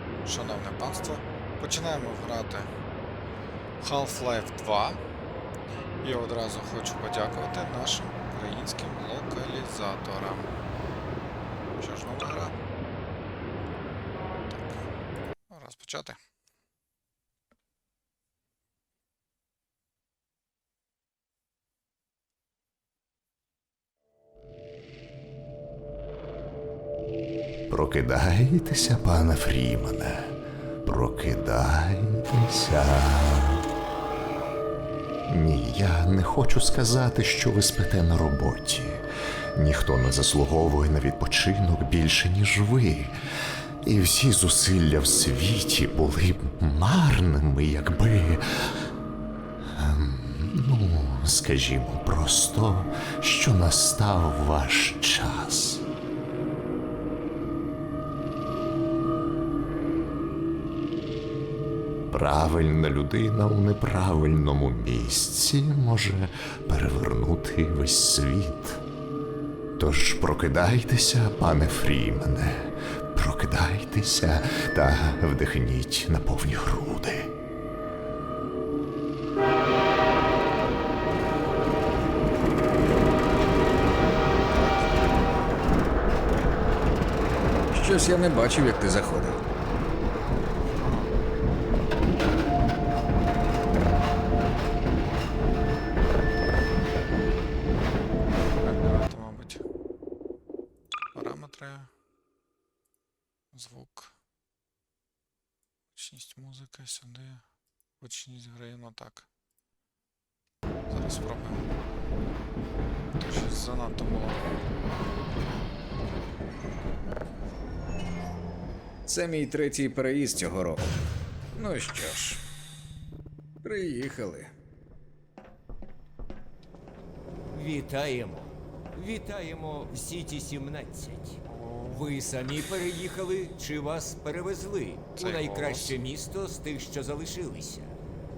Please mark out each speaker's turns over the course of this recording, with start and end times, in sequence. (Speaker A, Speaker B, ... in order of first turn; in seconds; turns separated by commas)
Speaker A: 0.2-2.7, Speaker A: 3.8-5.0, Speaker A: 6.0-10.5, Speaker A: 11.8-12.6, Speaker A: 14.5-14.8, Speaker A: 15.5-16.2, Speaker B: 27.7-33.6, Speaker B: 35.3-43.2, Speaker B: 43.8-48.9, Speaker B: 49.6-55.8, Speaker B: 62.1-68.8, Speaker B: 69.8-77.3, Speaker C: 87.7-89.4, Speaker A: 90.6-91.1, Speaker A: 98.6-99.6, Speaker A: 101.1-101.9, Speaker A: 103.5-104.2, Speaker A: 105.9-107.4, Speaker A: 108.0-109.3, Speaker A: 110.9-111.7, Speaker A: 113.2-114.6, Speaker A: 115.3-115.7, Speaker C: 119.1-120.8, Speaker C: 121.6-122.4, Speaker C: 123.6-124.5, Speaker D: 127.5-137.9, Speaker A: 131.5-132.2, Speaker A: 135.2-136.0